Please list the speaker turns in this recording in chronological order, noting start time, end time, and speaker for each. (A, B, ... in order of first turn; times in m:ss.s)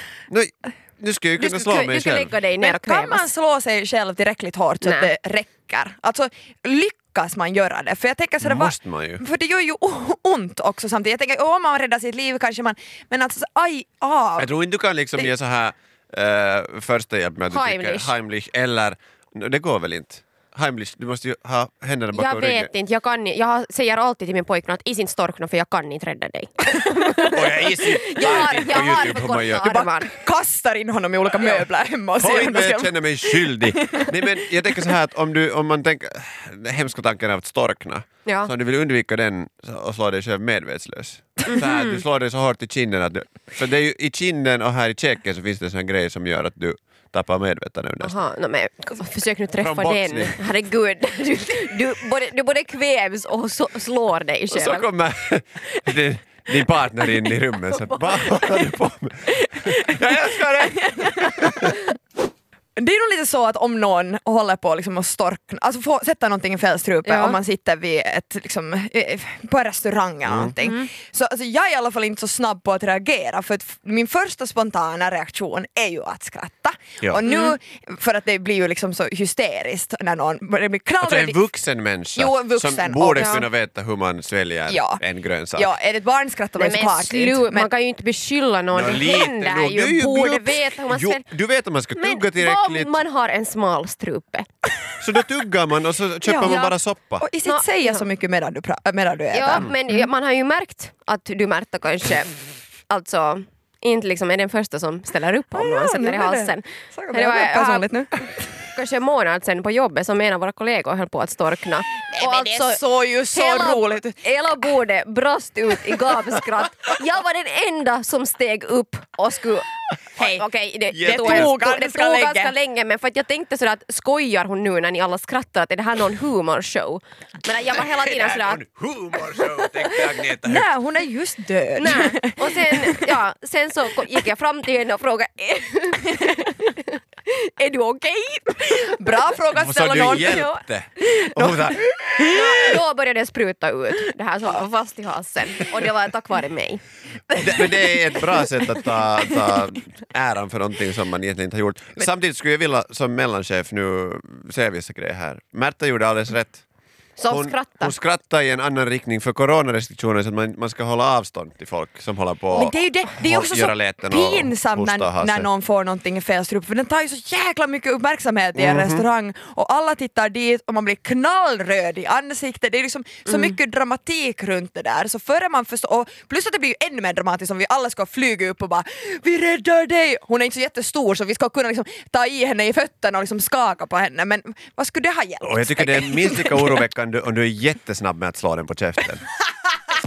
0:00.3-0:02.3 A
0:01.4-0:03.3 B
0:02.6-0:14.5 C
0:04.8-0:05.1 B
0:08.4-0:09.2 A
0:14.4-0:22.7 A
0:17.5-0:18.1 B
0:22.1-0:30.1 B
0:27.3-0:29.8 A
0:29.7-0:34.1 C
0:32.2-0:48.2 A
0:38.2-0:38.5 B
0:41.5-0:42.0 B
0:48.0-0:54.9 B
0:49.6-0:50.4 A
0:54.5-1:01.8 A
0:57.2-0:58.4 B
1:00.6-1:01.6 C
1:02.8-1:21.4 C
1:07.0-1:07.4 B
1:10.2-1:10.5 A
1:10.6-1:10.9 B
1:17.2-1:17.6 B
1:21.0-1:25.7 A
1:22.2-1:23.3 C
1:23.1-1:23.5 B
1:24.7-1:25.0 C
1:25.6-1:27.7 C
1:26.6-1:31.2 B
1:28.7-1:32.9 A
1:31.9-1:34.5 B
1:35.0-1:37.2 A
1:36.2-1:39.7 C
1:37.4-1:38.1 B
1:39.3-1:42.3 B
1:42.9-2:08.6 B
1:45.6-1:48.4 C
1:52.1-1:54.2 C
2:00.2-2:00.4 C
2:00.9-2:01.5 A
2:01.0-2:02.5 C
2:07.7-2:10.7 A
2:10.5-2:13.1 C
2:11.8-2:19.2 B
2:18.9-2:20.4 C
2:19.5-2:22.8 A
2:20.2-2:20.6 B
2:21.3-2:22.3 C
2:22.3-2:26.8 B
2:27.3-2:36.6 A
2:37.2-2:37.9 B
2:37.3-2:45.5 A
2:42.5-3:06.7 C
2:48.5-2:49.0 A
3:05.4-3:09.2 A